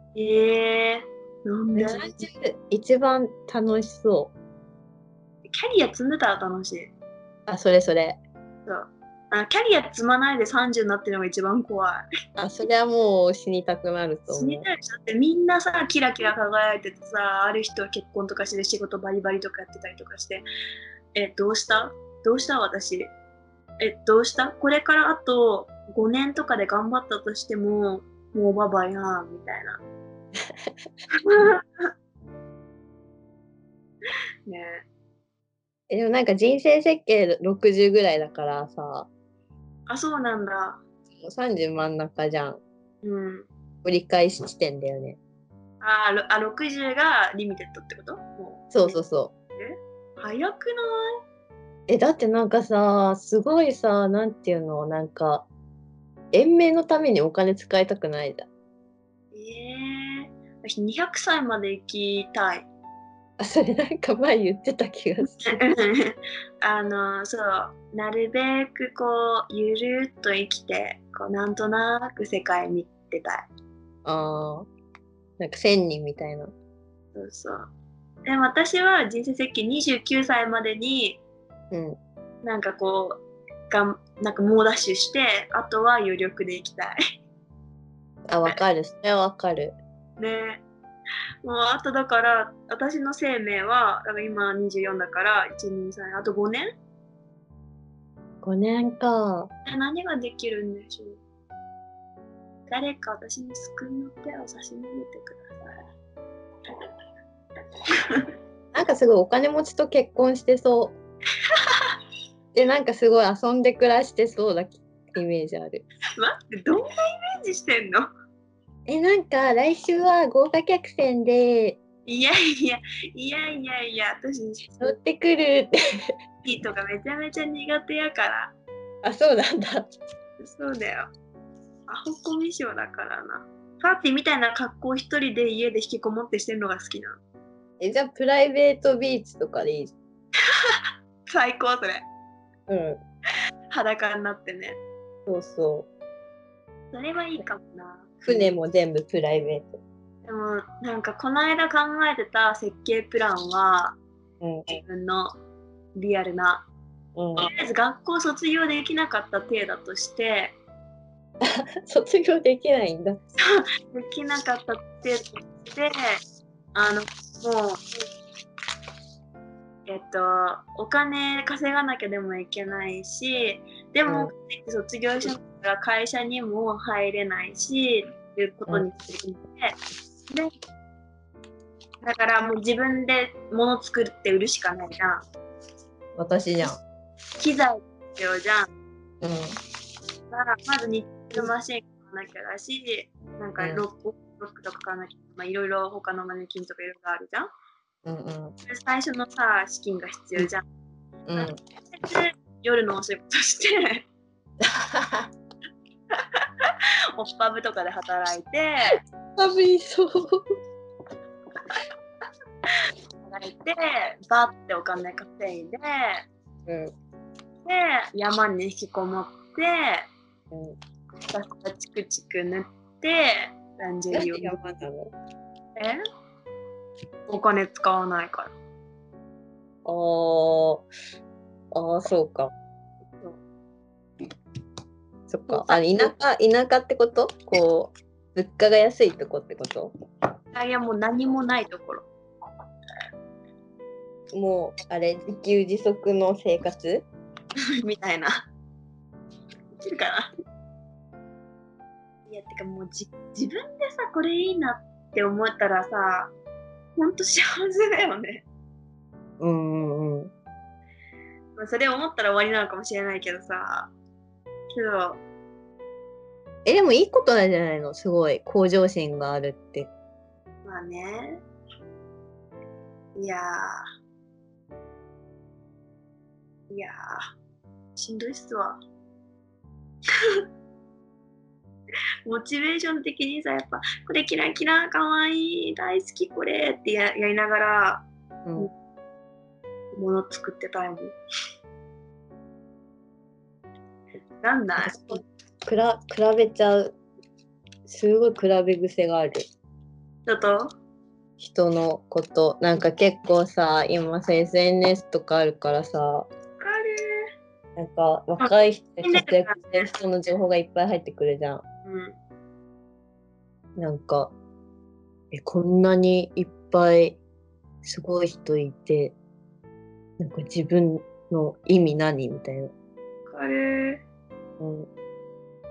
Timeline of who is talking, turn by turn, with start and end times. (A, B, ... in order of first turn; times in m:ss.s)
0:00.1-0:02.2 A
0:01.7-0:04.3 B
0:05.5-0:06.9 A
0:07.5-0:08.2 B
0:08.6-0:12.0 A
0:12.4-0:14.6 B
0:14.3-0:20.4 A
0:21.1-0:23.1 A
0:23.8-0:29.8 A
0:31.2-0:31.9 A
0:34.5-0:34.8 A
0:35.9-0:39.1 B
0:39.9-0:40.8 A
0:41.2-0:42.6 B
0:43.0-0:43.5 A
0:43.8-0:45.2 B
0:45.8-0:49.0 A
0:48.7-0:49.3 B
0:49.5-0:50.9 A
0:51.9-0:55.5 B
0:56.3-0:58.5 B
0:59.3-1:02.7 A
1:03.4-1:05.6 B
1:05.2-1:13.5 A
1:14.0-1:14.7 B
1:15.4-1:16.5 B
1:17.1-1:17.7 A
1:18.2-1:21.2 A
1:21.7-1:22.0 B
1:22.4-1:27.0 A
1:28.3-1:29.8 B
1:30.2-1:30.6 A
1:31.4-1:36.7 A
1:38.4-1:39.5 B
1:39.6-1:41.2 A
1:42.7-1:45.8 A
1:48.7-1:51.0 B
1:51.7-1:51.9 A
1:52.5-1:55.8 B
1:56.2-1:58.1 A
1:58.9-2:01.8 B
2:02.1-2:05.0 A
2:04.8-2:06.1 B
2:06.4-2:08.5 A
2:09.0-2:09.9 B
2:10.4-2:11.1 A
2:11.9-2:17.2 A
2:17.8-2:19.9 B
2:21.3-2:22.0 A
2:22.7-2:23.0 B
2:23.7-2:24.8 A
2:25.3-2:25.9 B
2:26.9-2:28.5 A
2:28.2-2:29.8 B
2:30.2-2:34.0 A
2:34.4-2:34.8 B
2:34.7-2:35.3 A
2:35.9-2:36.6 A
2:37.2-2:37.5 B
2:37.4-2:40.6 A
2:41.4-2:43.2 B
2:43.4-2:46.2 A
2:46.7-2:47.9 A
2:49.9-2:59.8 A
2:54.1-2:54.3 B
3:02.0-3:05.2 A
3:06.2-3:06.8 B
3:07.4-3:08.7 A
3:09.2-3:09.5 B
3:10.3-3:17.5 A
3:13.6-3:13.8 B
3:18.0-3:18.5 B
3:18.6-3:20.7 A
3:21.2-3:21.6 B
3:21.4-3:24.0 A
3:24.6-3:25.3 B
3:26.1-3:28.9 A
3:29.4-3:30.4 B
3:33.2-3:36.3 A
3:36.7-3:36.9 B
3:37.6-3:40.1 A
3:40.5-3:40.8 B
3:41.2-3:44.6 A
3:44.1-3:45.1 B
3:47.3-3:48.5 A
3:49.8-3:50.9 B
3:51.7-3:52.5 B
3:55.3-3:59.9 B
3:55.5-3:56.1 A
4:00.5-4:02.0 A
4:04.3-4:07.0 B
4:07.8-4:08.4 A
4:09.8-4:10.3 A
4:12.3-4:16.3 A
4:17.0-4:18.4 A
4:19.4-4:20.3 B
4:21.6-4:23.9 A
4:24.7-4:25.2 A
4:26.6-4:29.9 B
4:30.6-4:31.4 A
4:33.1-4:33.8 A
4:36.7-4:37.2 A
4:38.0-4:38.8 A
4:42.2-4:48.0 A
4:49.9-4:51.1 A
4:54.4-4:55.2 A
4:54.8-4:57.0 B
4:57.9-4:59.4 B
5:00.3-5:00.7 A
5:01.4-5:06.3 B
5:06.6-5:07.2 A
5:07.8-5:11.6 B
5:08.4-5:09.9 A
5:11.8-5:12.2 A
5:13.8-5:14.3 B
5:15.3-5:17.2 B
5:17.8-5:19.1 B
5:20.2-5:22.7 B
5:23.3-5:24.0 A
5:24.6-5:24.9 B